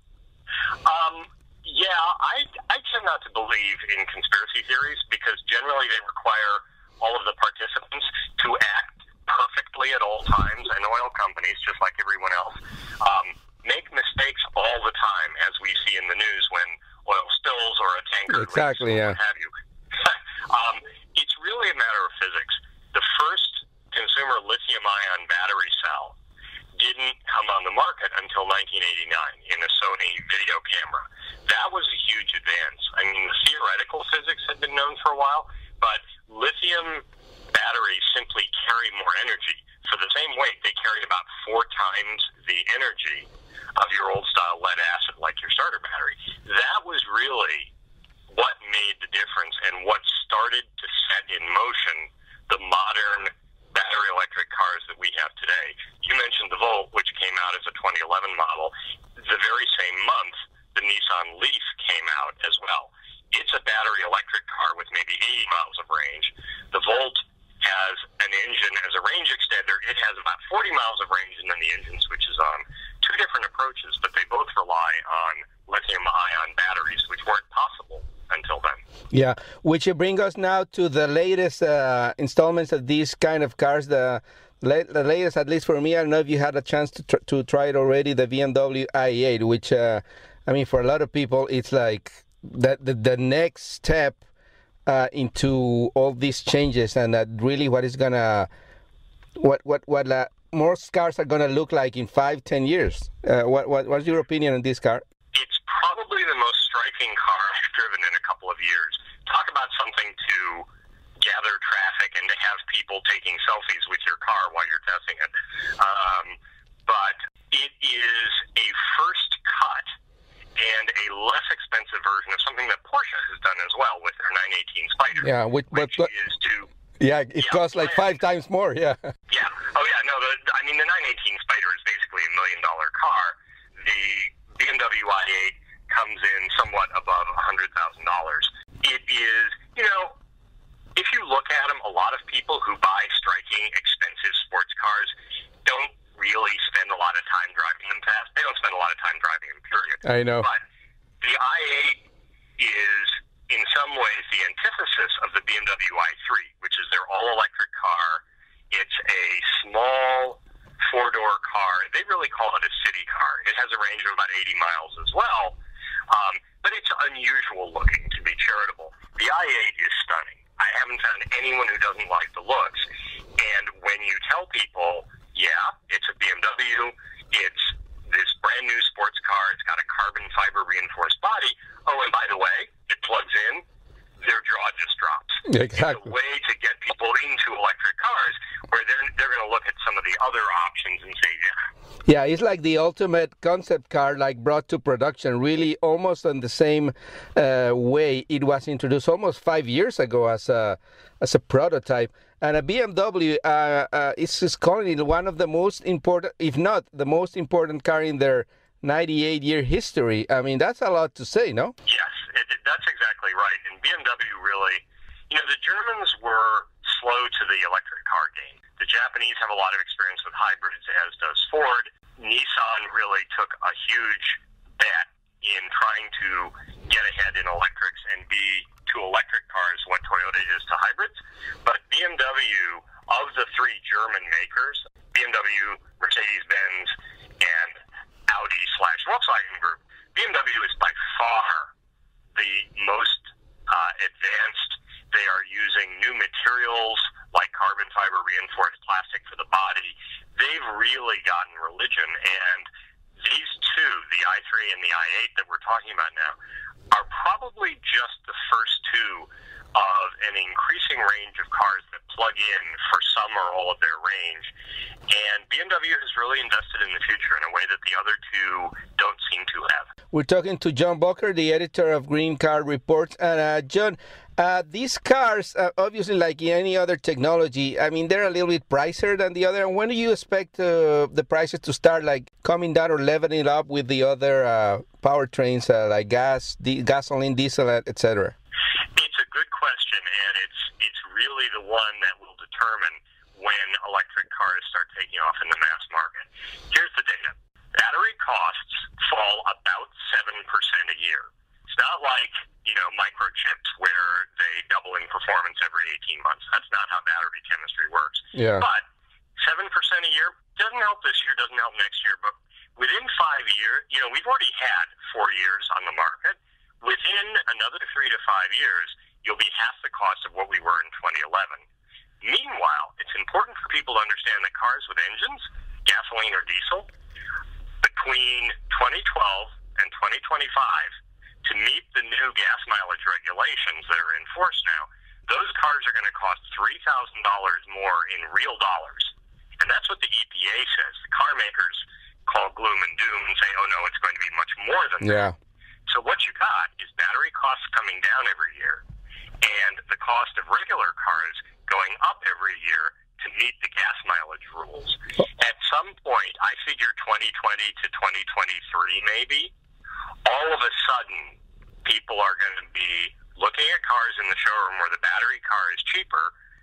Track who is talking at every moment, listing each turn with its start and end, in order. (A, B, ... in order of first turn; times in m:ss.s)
0:00.8-0:26.2 A
0:18.3-0:19.2 B
0:26.8-0:47.7 A
0:48.3-1:18.8 A
1:19.1-1:34.2 B
1:34.9-1:38.5 B
1:39.4-1:45.0 B
1:45.3-1:50.7 A
1:51.2-1:59.9 A
2:00.6-2:06.7 A
2:05.2-2:06.1 B
2:07.0-2:09.0 B
2:07.4-2:08.2 A
2:09.3-2:20.1 A
2:21.0-2:25.1 A
2:25.6-2:30.6 A
2:30.0-2:30.5 B
2:31.2-2:32.0 A
2:32.6-2:45.6 A
2:46.1-2:52.8 A
2:53.4-3:03.6 A
3:04.2-3:11.5 A
3:05.5-3:06.1 B
3:12.1-3:31.7 B
3:31.9-3:57.8 A
3:58.3-4:01.7 A
4:02.4-4:12.7 A
4:13.2-4:16.4 A
4:16.9-4:24.5 A
4:25.1-4:29.9 A
4:30.1-4:48.4 B
4:49.0-5:08.8 A
5:08.3-5:08.6 B
5:09.4-5:21.6 A
5:22.2-5:26.9 A
5:27.8-5:30.9 A
5:31.4-5:45.3 A
5:45.0-5:45.4 B
5:45.9-5:48.8 A
5:49.4-5:59.5 A
6:00.2-6:06.3 A